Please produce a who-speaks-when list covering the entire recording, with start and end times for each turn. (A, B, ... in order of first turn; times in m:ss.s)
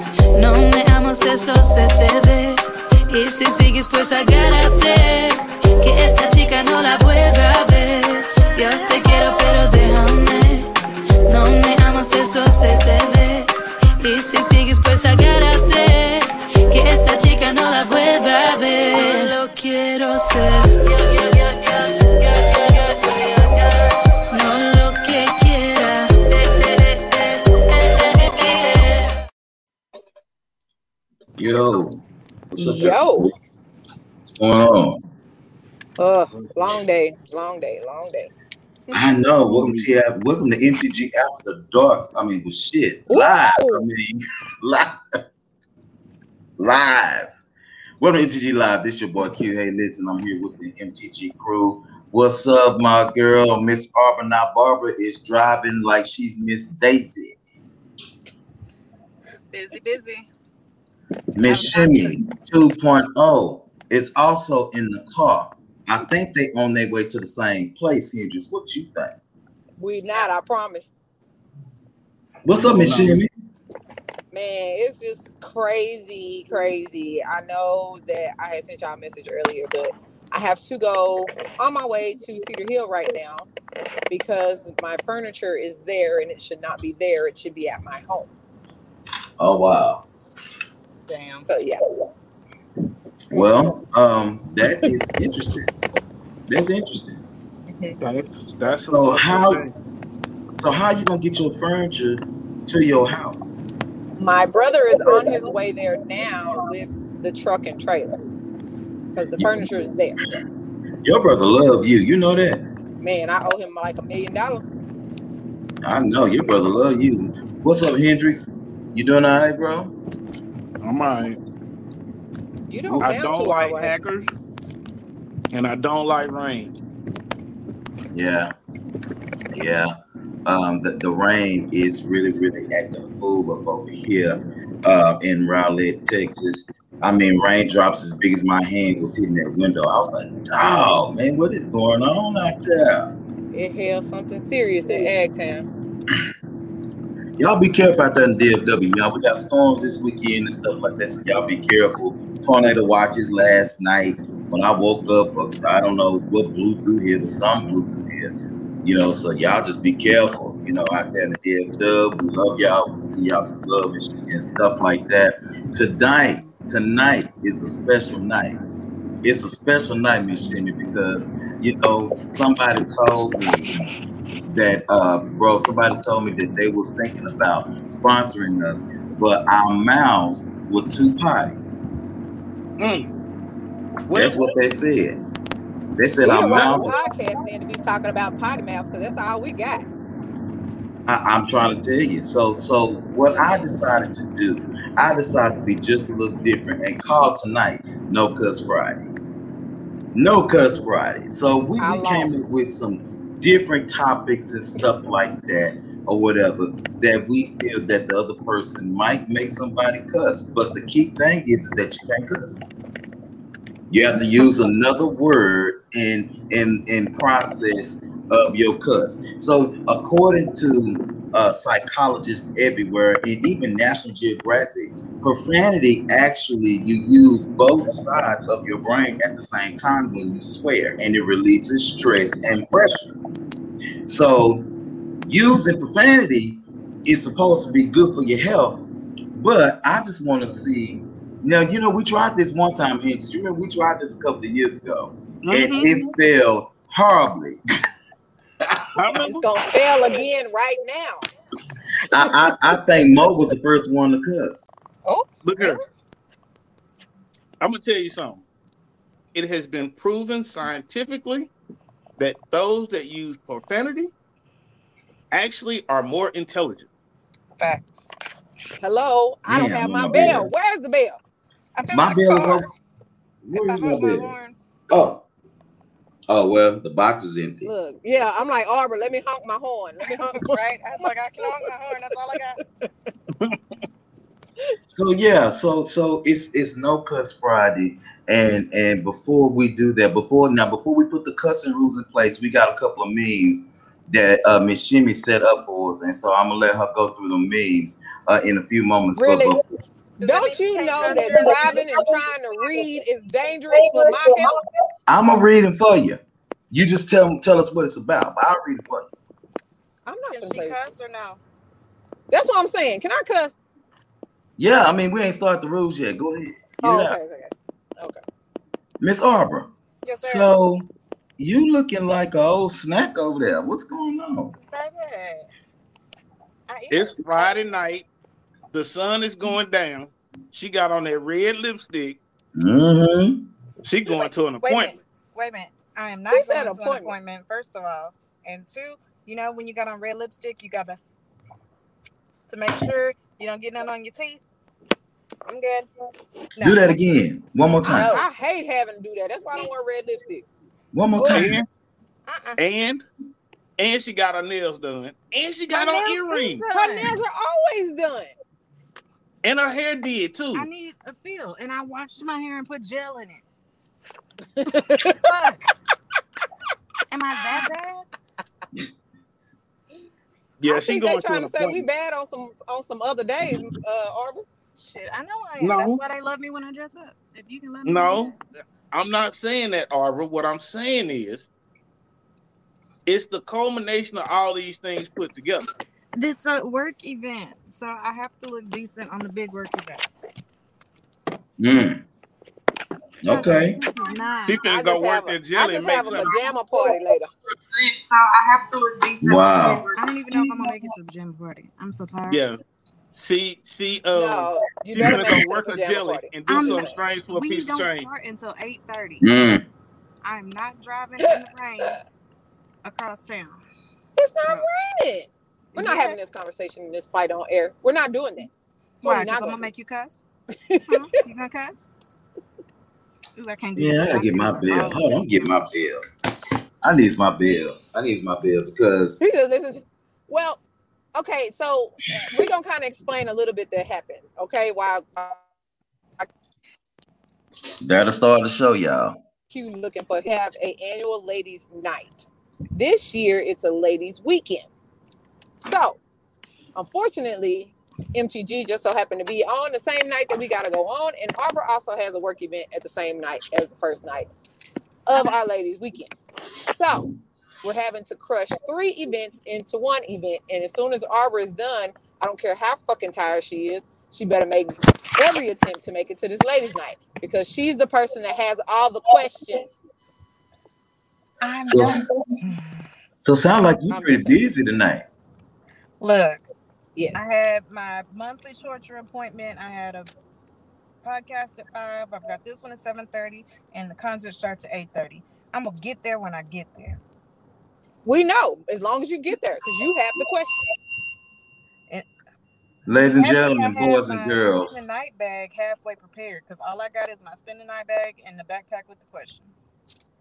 0:00.4-0:10.7 A
0:11.3-0:29.1 A
0:31.4-0:32.0 B
0:32.5-0:33.3 B
0:32.6-0:33.3 C
0:34.2-0:35.0 B
0:36.0-0:38.3 C
0:38.9-0:45.0 B
0:43.1-0:43.8 C
0:46.6-0:47.3 B
0:48.0-0:57.4 B
0:59.5-1:00.3 D
1:01.4-1:09.2 B
1:01.4-1:02.2 D
1:09.8-1:10.9 C
1:12.4-1:13.3 B
1:12.7-1:13.1 E
1:14.3-1:23.5 C
1:24.1-1:28.3 C
1:29.4-1:30.0 B
1:31.1-1:31.5 D
1:31.4-1:31.9 C
1:33.3-1:35.7 B
1:33.3-1:33.8 C
1:36.5-1:37.2 B
1:38.0-1:39.7 E
1:38.9-1:39.7 B
1:40.6-1:43.5 B
1:44.2-1:48.2 C
1:49.2-1:50.2 C
1:49.4-1:49.7 B
1:51.0-1:52.6 B
1:53.0-1:54.7 C
1:55.8-2:00.0 B
2:00.8-2:01.4 E
2:02.7-2:03.9 C
2:02.9-2:03.2 B
2:03.0-2:04.3 E
2:05.5-2:06.7 E
2:08.1-2:08.5 B
2:09.5-2:23.1 B
2:23.5-2:25.7 C
2:27.4-2:38.3 B
2:38.8-2:48.6 B
2:49.2-2:53.8 B
2:54.5-3:01.6 B
3:02.8-3:03.1 E
3:04.1-3:04.5 E
3:04.1-3:05.2 B
3:06.0-3:07.0 B
3:06.2-3:09.9 C
3:11.1-3:19.1 B
3:20.1-3:32.6 B
3:21.8-3:22.4 C
3:33.9-3:53.1 B
3:54.1-3:54.7 B
3:55.2-3:58.8 B
3:59.4-4:07.6 B
4:05.4-4:05.9 E
4:08.6-4:09.2 B
4:09.0-4:09.4 E
4:09.1-4:11.3 C
4:12.1-4:14.7 B
4:15.1-4:15.8 D
4:15.4-4:15.8 E
4:17.6-4:18.4 E
4:19.4-4:21.5 E
4:22.2-4:24.1 E
4:25.3-4:26.9 E
4:27.6-4:28.1 D
4:28.8-4:31.2 C
4:29.5-4:30.5 B
4:31.8-4:32.7 D
4:31.9-4:32.7 B
4:33.4-4:34.4 B
4:33.5-4:34.6 D
4:34.9-4:35.2 B
4:36.3-4:37.7 B
4:37.6-4:40.6 C
4:40.1-4:42.6 D
4:44.9-4:59.6 B
4:59.2-4:59.6 C
5:00.2-5:02.2 D
5:00.2-5:04.6 C
5:04.2-5:04.5 D
5:05.1-5:09.1 B
5:10.1-5:10.9 C
5:10.3-5:11.4 D
5:12.3-5:13.6 C
5:14.6-5:17.2 B
5:16.8-5:18.2 C
5:19.0-5:20.9 B
5:20.0-5:20.5 D
5:21.4-5:24.5 B
5:24.7-5:25.5 D
5:26.7-5:27.9 D
5:26.9-5:28.0 E
5:28.7-5:32.2 E
5:32.6-5:33.4 B
5:33.8-5:35.0 E
5:34.1-5:41.0 D
5:36.3-5:37.2 C
5:42.5-5:44.4 D
5:45.5-5:45.9 D
5:46.6-5:47.0 D
5:46.6-5:48.2 B
5:47.9-5:48.3 D
5:47.9-5:50.4 C
5:50.9-5:51.7 B
5:51.3-5:51.6 E
5:52.3-5:52.6 D
5:52.6-5:53.0 E
5:53.8-5:56.7 E
5:55.7-5:57.2 D
5:56.7-5:58.3 C
5:59.4-6:00.7 E
6:00.5-6:03.4 D
6:04.6-6:05.3 C
6:05.0-6:05.7 D
6:07.1-6:08.1 D
6:10.6-6:11.9 E
6:10.7-6:14.5 C
6:14.8-6:18.4 D
6:15.6-6:16.0 E
6:17.8-6:18.4 E
6:18.9-6:21.5 E
6:23.1-6:25.7 E
6:26.2-6:30.3 D
6:31.6-6:32.0 B
6:33.2-6:33.8 B
6:33.2-6:34.6 D
6:34.5-6:36.4 E
6:34.7-6:37.3 C
6:35.8-6:36.9 D
6:37.6-6:42.4 D
6:39.2-6:40.8 B
6:42.3-6:42.6 E
6:43.1-6:48.1 E
6:44.1-6:47.0 C
6:46.5-6:49.3 D
6:49.2-6:49.6 B
6:50.2-6:52.0 D
6:52.8-6:53.6 D
6:54.2-6:58.5 C
6:55.7-6:56.2 D
6:59.0-7:00.2 D
6:59.0-6:59.7 C
7:00.7-7:01.1 C
7:00.9-7:01.9 D
7:03.4-7:05.8 D
7:03.8-7:06.0 B
7:06.8-7:09.2 B
7:09.2-7:10.6 C
7:11.2-7:15.4 C
7:17.8-7:19.2 B
7:19.5-7:24.7 C
7:25.6-7:26.0 C
7:26.8-7:34.3 C
7:35.1-7:36.1 C
7:36.6-7:37.1 C
7:37.6-7:49.7 C
7:51.4-7:52.7 D
7:51.6-7:52.0 B
7:53.2-7:55.1 B
7:53.9-7:54.4 C
7:56.0-7:56.5 D
7:57.0-7:57.2 C
7:57.1-8:00.1 D
8:01.0-8:07.0 D
8:08.0-8:10.7 C
8:12.9-8:14.9 B
8:13.1-8:19.6 D